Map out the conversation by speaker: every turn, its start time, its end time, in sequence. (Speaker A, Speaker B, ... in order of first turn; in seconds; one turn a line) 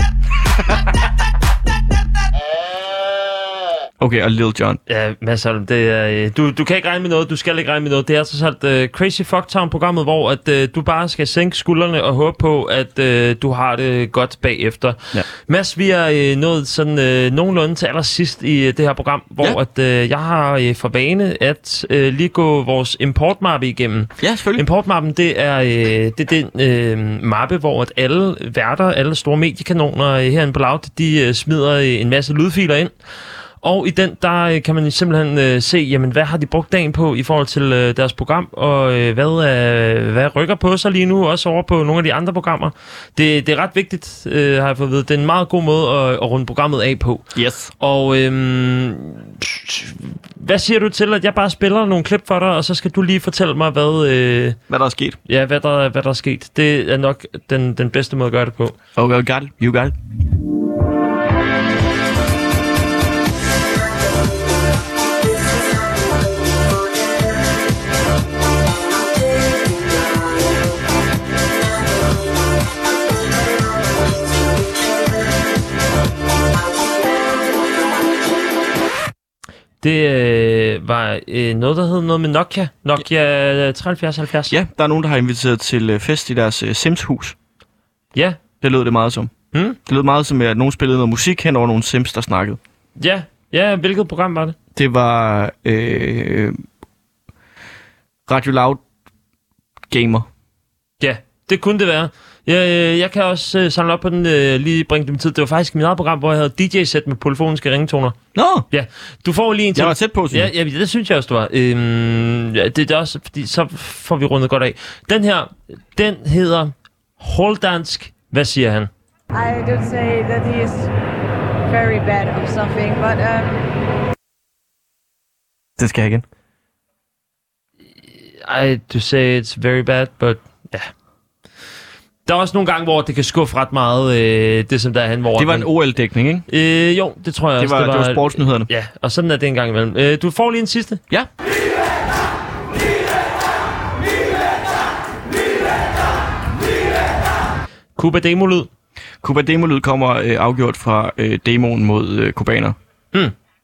Speaker A: 4.0-4.8
Speaker B: 4.9-32.9
Speaker A: 24.2-24.6
Speaker B: 33.6-47.3
Speaker A: 47.4-47.7
Speaker B: 47.8-54.6
Speaker A: 54.7-55.2
Speaker B: 55.3-58.8
Speaker A: 59.0-59.9
Speaker B: 79.8-84.5
Speaker A: 84.5-87.4
Speaker B: 88.1-88.4
Speaker A: 88.6-89.3
Speaker A: 89.8-92.6
Speaker B: 93.0-94.6
Speaker A: 94.8-96.6
Speaker A: 98.3-98.8
Speaker A: 99.9-100.3
Speaker B: 101.0-108.2
Speaker A: 108.3-108.7
Speaker B: 108.7-118.9
Speaker A: 109.8-110.5
Speaker C: 119.3-120.9
Speaker C: 121.7-123.7
Speaker A: 125.8-126.2
Speaker B: 128.4-130.9
Speaker B: 132.3-135.7
Speaker A: 135.4-136.5
Speaker B: 136.5-141.0
Speaker A: 137.6-138.7
Speaker B: 148.0-148.7
Speaker A: 149.2-152.8